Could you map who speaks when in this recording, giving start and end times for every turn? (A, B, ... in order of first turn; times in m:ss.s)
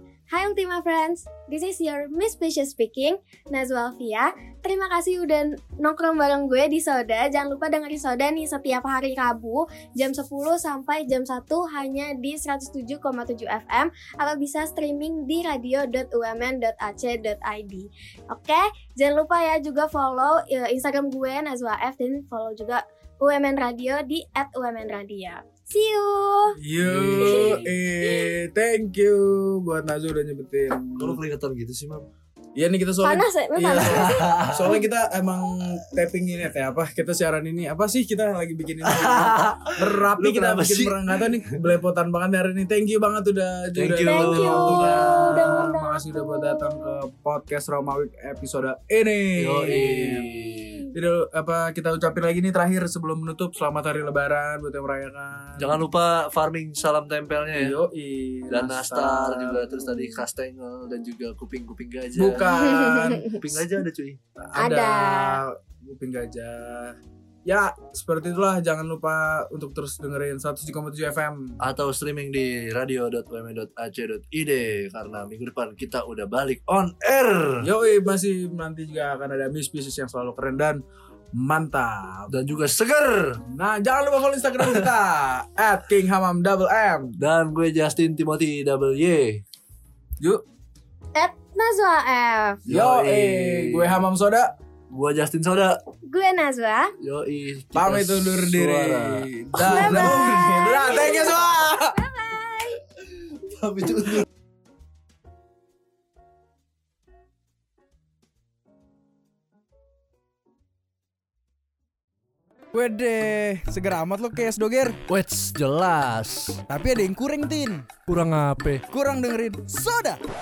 0:00.3-0:26.6 A
0:26.6-0:31.2 B
0:26.8-0:27.7 C
0:27.2-0:28.3 A
0:31.0-0:32.1 C
0:32.6-0:50.3 B
0:33.0-0:34.6 A
0:33.8-0:34.7 C
0:38.8-0:41.3 C
0:43.8-0:45.7 C
0:44.0-0:47.0 A
0:49.4-0:50.8 C
0:50.9-0:55.8 B
0:55.6-0:57.8 C
0:57.6-0:59.8 B
0:58.5-1:02.4 C
1:02.2-1:03.3 B
1:02.4-1:03.7 A
1:03.4-1:04.2 C
1:04.5-1:11.6 B
1:04.6-1:05.4 A
1:11.6-1:17.7 C
1:17.6-1:20.8 B
1:21.3-1:22.3 B
1:22.3-1:23.4 C
1:23.5-1:27.2 B
1:24.6-1:24.9 C
1:27.2-1:29.4 C
1:31.1-1:32.6 A
1:32.6-1:34.0 C
1:32.7-1:34.5 B
1:34.9-1:35.8 C
1:36.1-1:36.9 A
1:37.0-1:40.2 C
1:37.8-1:42.0 B
1:39.6-1:42.8 A
1:43.0-1:44.3 C
1:52.7-1:55.0 D
1:55.1-1:56.6 C
1:56.7-1:58.0 D
1:58.1-1:58.8 C
1:58.9-2:00.2 D